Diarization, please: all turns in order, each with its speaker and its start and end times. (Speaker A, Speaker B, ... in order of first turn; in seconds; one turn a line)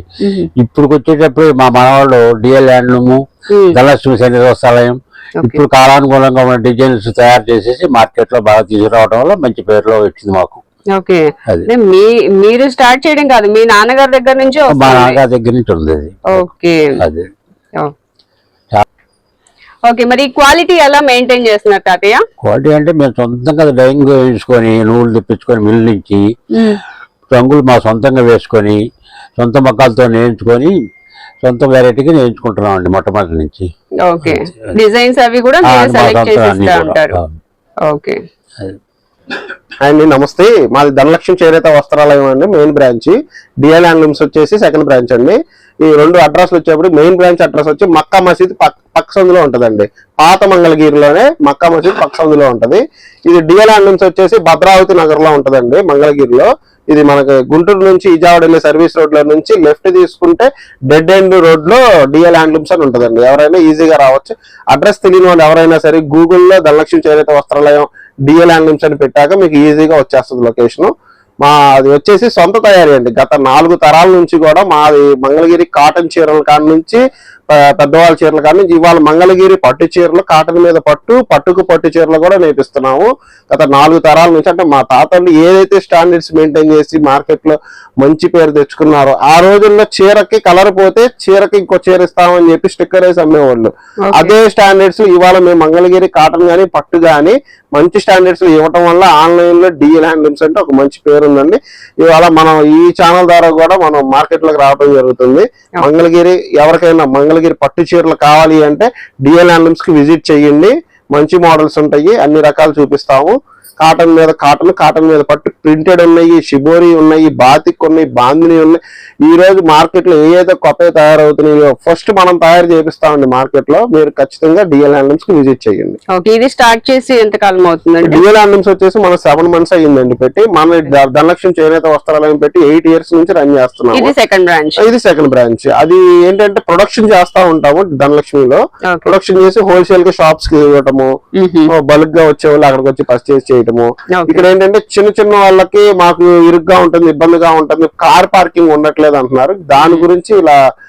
Speaker A: 0.2-0.5
Speaker B: 0.6-3.2
Speaker A: 3.5-3.8
Speaker B: 3.7-10.6
Speaker A: 10.9-15.2
Speaker B: 14.7-16.5
Speaker A: 16.3-17.0
Speaker B: 17.0-17.3
Speaker A: 19.9-22.2
Speaker B: 22.4-26.3
Speaker A: 26.5-26.8
Speaker B: 27.3-28.8
Speaker B: 29.4-30.7
Speaker B: 31.4-33.7
Speaker A: 34.0-37.2
Speaker B: 35.6-37.3
Speaker A: 37.9-38.2
Speaker C: 39.8-126.0
Speaker A: 94.0-94.3
Speaker A: 126.1-128.2
Speaker C: 128.0-134.1
Speaker A: 133.9-134.8
Speaker C: 134.8-141.1
Speaker A: 138.9-139.2
Speaker A: 141.4-141.7
Speaker C: 141.7-150.6
Speaker A: 144.1-144.4
Speaker A: 149.8-150.1